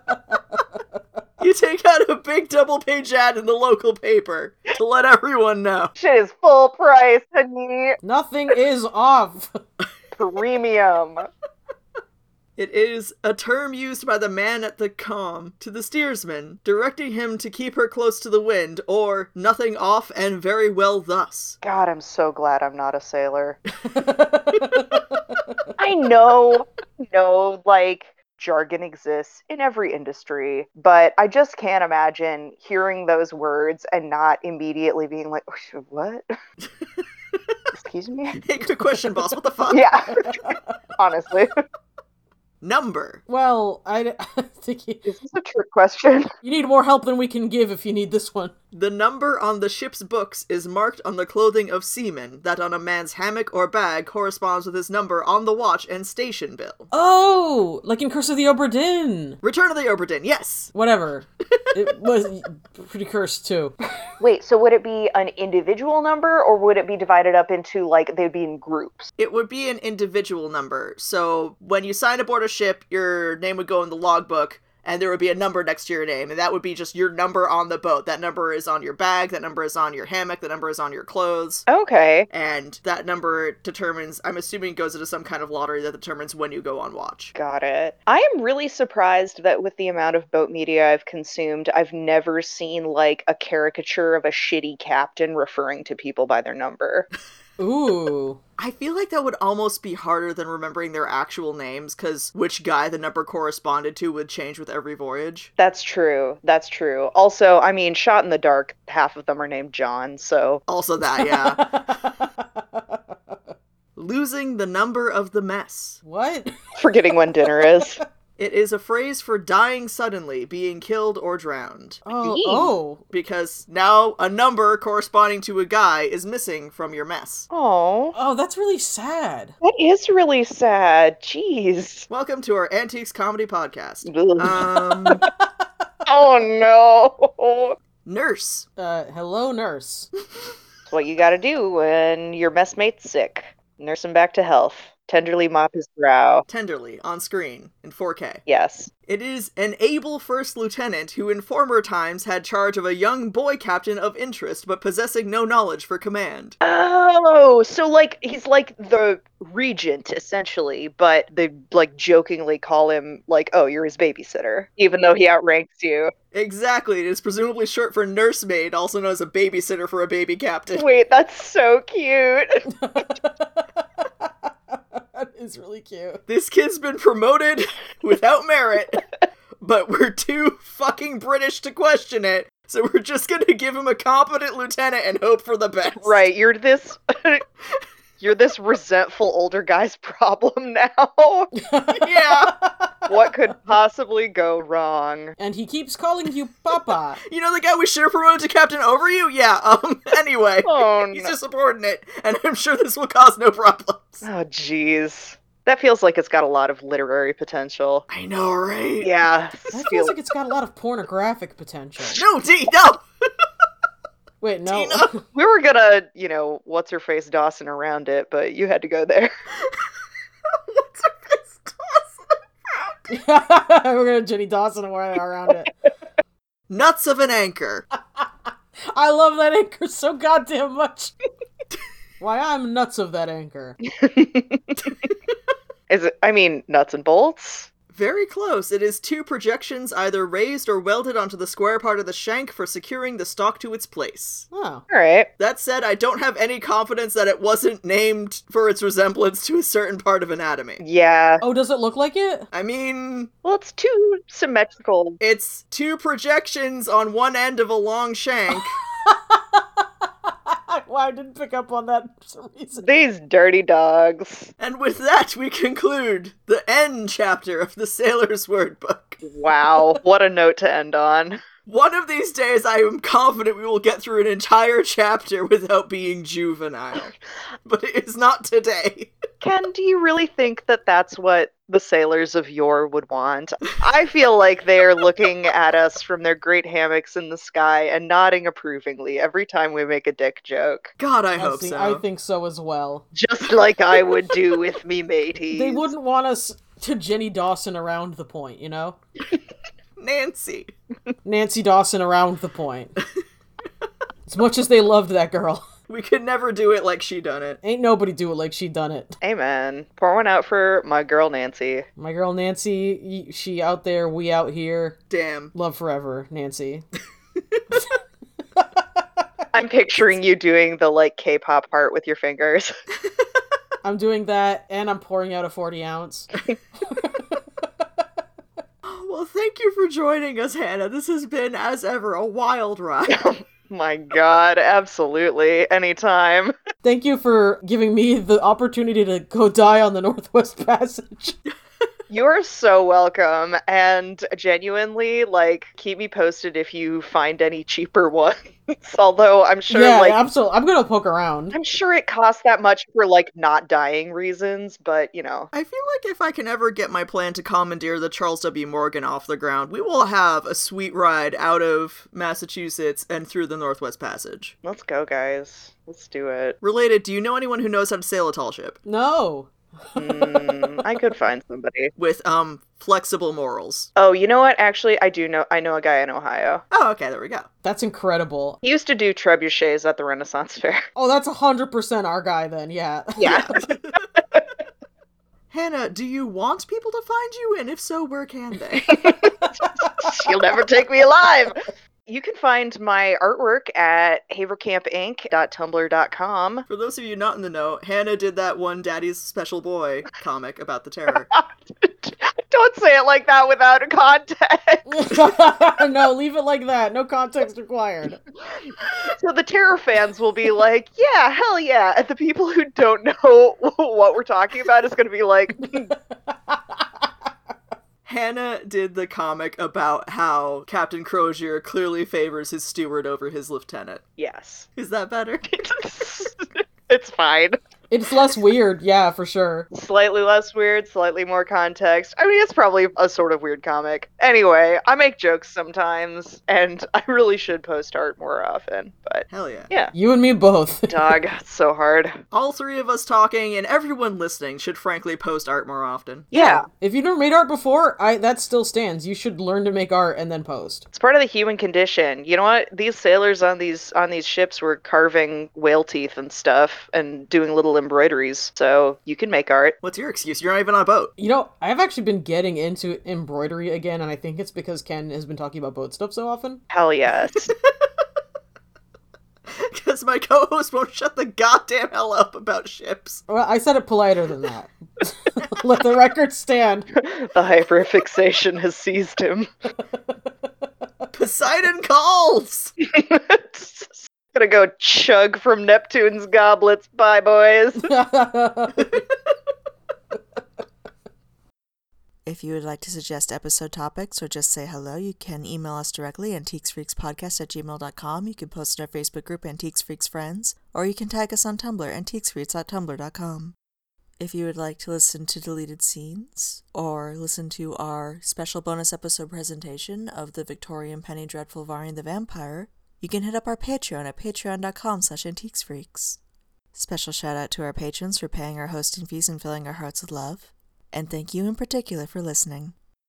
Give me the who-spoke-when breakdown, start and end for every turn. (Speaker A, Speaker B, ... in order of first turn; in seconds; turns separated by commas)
Speaker A: 1.4-5.9, Speaker B: 6.0-8.0, Speaker C: 8.0-9.6, Speaker B: 10.2-11.3, Speaker A: 12.6-21.6, Speaker B: 21.6-23.6, Speaker C: 23.9-25.0, Speaker B: 25.8-36.2, Speaker B: 37.7-38.4, Speaker A: 38.4-39.9, Speaker B: 39.7-41.5, Speaker A: 42.6-43.2, Speaker C: 43.3-45.0, Speaker B: 45.0-46.3, Speaker C: 46.4-48.5, Speaker A: 48.7-56.9, Speaker C: 56.9-59.4, Speaker A: 59.4-60.7, Speaker C: 60.7-63.8, Speaker B: 64.2-69.1, Speaker A: 69.2-81.6, Speaker B: 81.7-82.3, Speaker A: 82.3-87.3, Speaker B: 87.3-97.1, Speaker C: 97.6-98.4, Speaker A: 98.6-105.5, Speaker B: 105.6-110.6, Speaker A: 110.7-111.7, Speaker C: 111.2-112.1, Speaker A: 114.0-116.0, Speaker C: 116.0-116.5, Speaker B: 116.8-118.0, Speaker C: 117.5-117.9, Speaker A: 118.4-122.0, Speaker C: 122.0-123.0, Speaker B: 122.2-122.7, Speaker A: 123.1-127.5, Speaker B: 127.5-128.2, Speaker C: 128.1-129.5, Speaker B: 129.6-132.1, Speaker A: 132.1-135.2, Speaker B: 134.0-135.2, Speaker B: 136.1-137.8, Speaker A: 138.0-138.7, Speaker C: 138.8-140.1, Speaker B: 140.9-146.4, Speaker A: 146.5-148.4, Speaker B: 148.4-148.9, Speaker A: 149.1-156.6, Speaker B: 156.6-166.1, Speaker A: 166.3-170.8, Speaker B: 170.8-172.7, Speaker C: 172.7-173.7, Speaker C: 174.2-176.2, Speaker A: 176.3-179.0, Speaker A: 179.6-186.3, Speaker B: 186.0-187.4, Speaker B: 188.2-191.5, Speaker C: 191.6-192.7, Speaker B: 192.0-192.3, Speaker A: 192.0-192.5, Speaker B: 193.1-195.3, Speaker C: 195.4-197.2, Speaker A: 197.2-204.2, Speaker B: 200.6-201.3, Speaker B: 204.2-208.1, Speaker A: 208.1-209.1, Speaker B: 209.0-210.1, Speaker C: 209.7-212.2, Speaker A: 212.1-213.0, Speaker C: 214.4-215.2, Speaker A: 214.7-215.1, Speaker B: 215.3-219.3, Speaker A: 220.5-222.9, Speaker C: 223.1-225.7, Speaker A: 226.7-227.8, Speaker C: 228.9-231.1, Speaker C: 232.2-233.8, Speaker B: 233.9-234.9, Speaker B: 235.9-237.7, Speaker A: 237.9-244.5, Speaker C: 244.5-244.8, Speaker B: 244.9-245.3, Speaker A: 245.4-250.8, Speaker B: 250.8-251.4, Speaker C: 251.4-252.5, Speaker A: 252.5-253.3, Speaker B: 253.4-255.2, Speaker A: 255.2-258.8, Speaker C: 259.0-259.6, Speaker C: 260.5-262.8, Speaker B: 262.8-264.5, Speaker A: 264.6-269.2, Speaker B: 269.2-271.4, Speaker A: 271.6-279.1, Speaker B: 279.4-290.9, Speaker A: 291.0-292.0, Speaker C: 291.4-293.0, Speaker B: 293.1-295.9, Speaker C: 295.5-299.0, Speaker A: 300.0-300.7, Speaker C: 301.2-302.9, Speaker C: 304.2-305.6, Speaker A: 305.9-307.6, Speaker C: 307.6-309.1, Speaker B: 309.2-311.8, Speaker C: 312.0-315.0, Speaker A: 315.1-315.5, Speaker C: 315.5-316.9, Speaker B: 319.5-322.7, Speaker C: 323.8-326.3, Speaker C: 326.8-327.4, Speaker A: 328.8-333.2, Speaker B: 333.1-336.5, Speaker C: 336.8-341.4, Speaker B: 342.1-350.2, Speaker C: 349.7-351.5, Speaker B: 351.5-355.5, Speaker A: 355.5-364.5, Speaker B: 364.6-366.6, Speaker A: 366.6-368.8, Speaker C: 368.8-370.8, Speaker B: 369.9-371.9, Speaker A: 372.0-373.9, Speaker B: 373.9-376.6, Speaker A: 376.7-377.5, Speaker C: 377.6-378.6, Speaker B: 378.6-380.8, Speaker C: 380.9-383.5, Speaker B: 383.2-383.6, Speaker A: 383.3-383.8, Speaker A: 385.5-389.0, Speaker B: 388.8-389.3, Speaker B: 389.9-396.7, Speaker A: 396.7-401.3, Speaker B: 401.3-405.4, Speaker C: 404.9-408.2, Speaker B: 409.0-415.9, Speaker C: 415.7-416.6, Speaker A: 418.0-424.0, Speaker B: 424.2-424.7, Speaker A: 424.8-425.5, Speaker B: 425.5-427.6, Speaker C: 427.9-429.7, Speaker B: 429.7-439.9, Speaker A: 439.3-439.7, Speaker C: 439.9-441.1, Speaker B: 440.9-442.2, Speaker A: 442.3-446.3, Speaker B: 446.3-446.7, Speaker C: 446.4-450.8, Speaker B: 450.9-459.8, Speaker A: 459.8-461.1, Speaker C: 461.2-466.6, Speaker B: 466.7-467.5, Speaker A: 469.5-473.2, Speaker C: 473.3-476.9, Speaker B: 477.0-479.5, Speaker A: 481.1-482.7, Speaker B: 482.8-487.9, Speaker C: 487.8-489.0, Speaker D: 492.2-503.5, Speaker D: 504.2-516.2, Speaker D: 516.7-522.7